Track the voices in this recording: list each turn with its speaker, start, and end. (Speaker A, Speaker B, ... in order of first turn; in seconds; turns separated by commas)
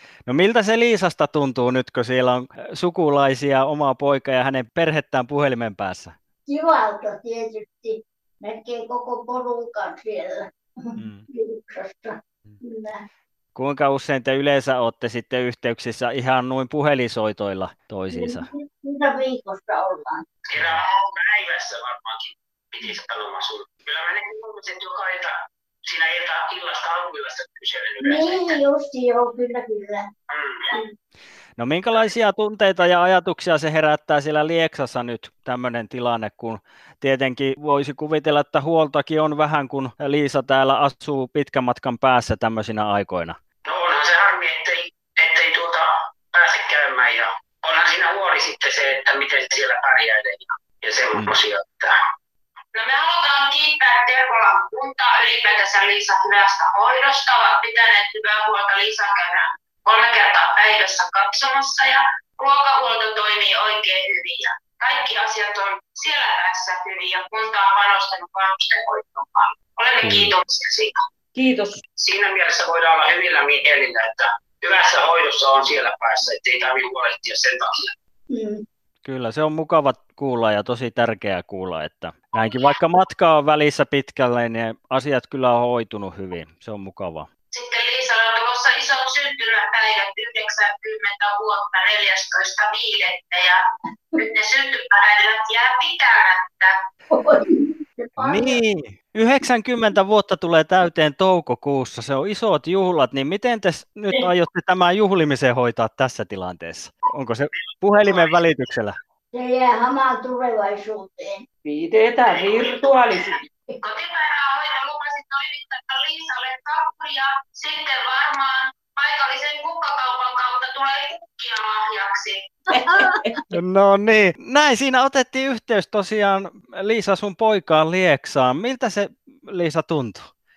Speaker A: 0.3-6.1, Speaker B: 6.5-13.0, Speaker A: 10.9-11.2, Speaker A: 13.5-18.5, Speaker B: 18.1-20.2, Speaker C: 20.5-25.3, Speaker A: 20.6-20.8, Speaker C: 25.8-28.6, Speaker B: 28.0-30.1, Speaker C: 30.3-30.6, Speaker A: 31.6-43.4, Speaker C: 43.7-51.9, Speaker D: 53.0-59.3, Speaker D: 59.9-69.2, Speaker D: 69.8-70.3, Speaker A: 70.0-70.3, Speaker C: 70.0-70.7, Speaker E: 71.3-71.8, Speaker C: 72.0-77.9, Speaker B: 78.3-78.6, Speaker A: 79.0-87.3, Speaker D: 87.7-93.5, Speaker D: 94.4-96.6, Speaker B: 97.1-98.6, Speaker A: 98.2-109.0, Speaker B: 109.3-111.4, Speaker E: 111.6-113.4, Speaker D: 114.3-117.2, Speaker D: 119.0-122.1, Speaker E: 122.7-123.2, Speaker B: 122.7-123.3, Speaker A: 123.5-130.3